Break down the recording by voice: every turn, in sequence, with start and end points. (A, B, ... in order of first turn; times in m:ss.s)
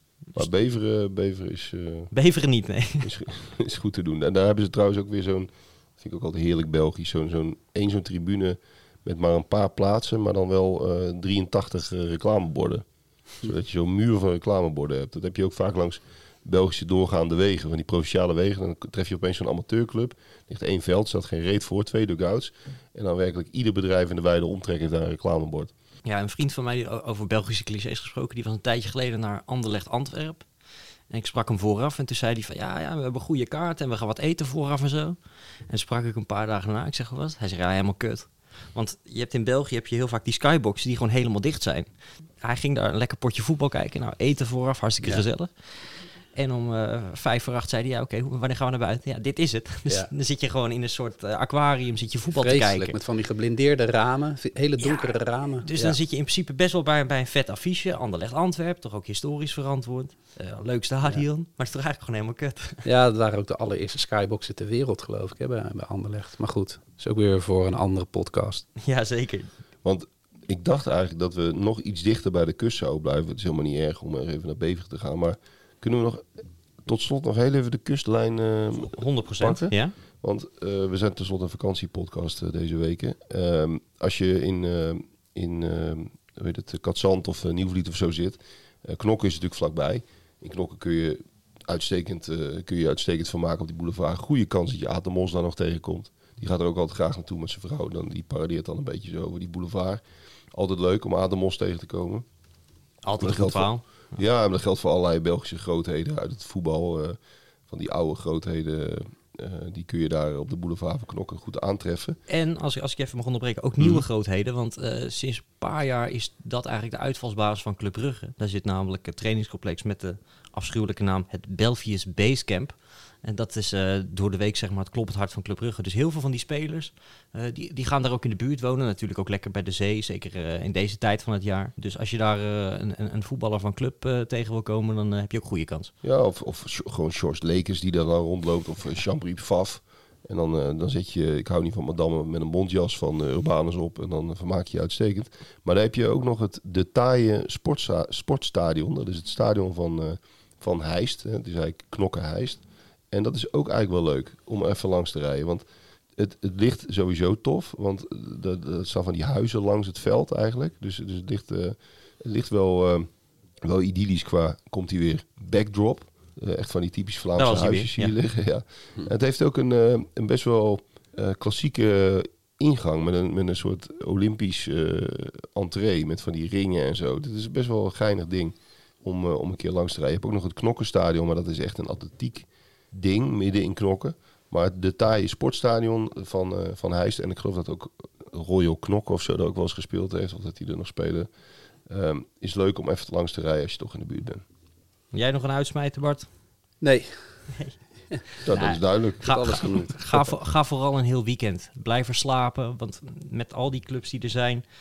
0:00.3-0:02.1 A
0:02.1-0:03.1 B
0:03.0-0:12.8 A
0:13.4-0:25.7 A
0:26.0-0:30.4 B
0:31.1-0:35.2 B
0:35.7-0:41.9 B
0:42.4-0:45.5 B
0:46.3-0:53.0 B
0:52.3-0:56.0 C
0:54.8-1:02.8 B
1:02.8-1:08.6 C
1:08.8-1:09.5 B
1:09.8-1:16.2 A
1:16.8-1:42.2 A
1:18.7-1:19.9 B
1:43.0-1:43.8 B
1:43.2-1:52.2 A
1:52.3-2:15.9 B
2:16.0-2:35.6 A
2:36.2-2:43.1 A
2:43.6-3:11.3 A
2:47.4-2:48.1 B
3:11.9-3:14.4 A
3:15.1-3:16.3 B
3:16.8-3:17.4 C
3:18.4-3:24.6 B
3:18.4-3:19.8 A
3:19.2-3:20.0 C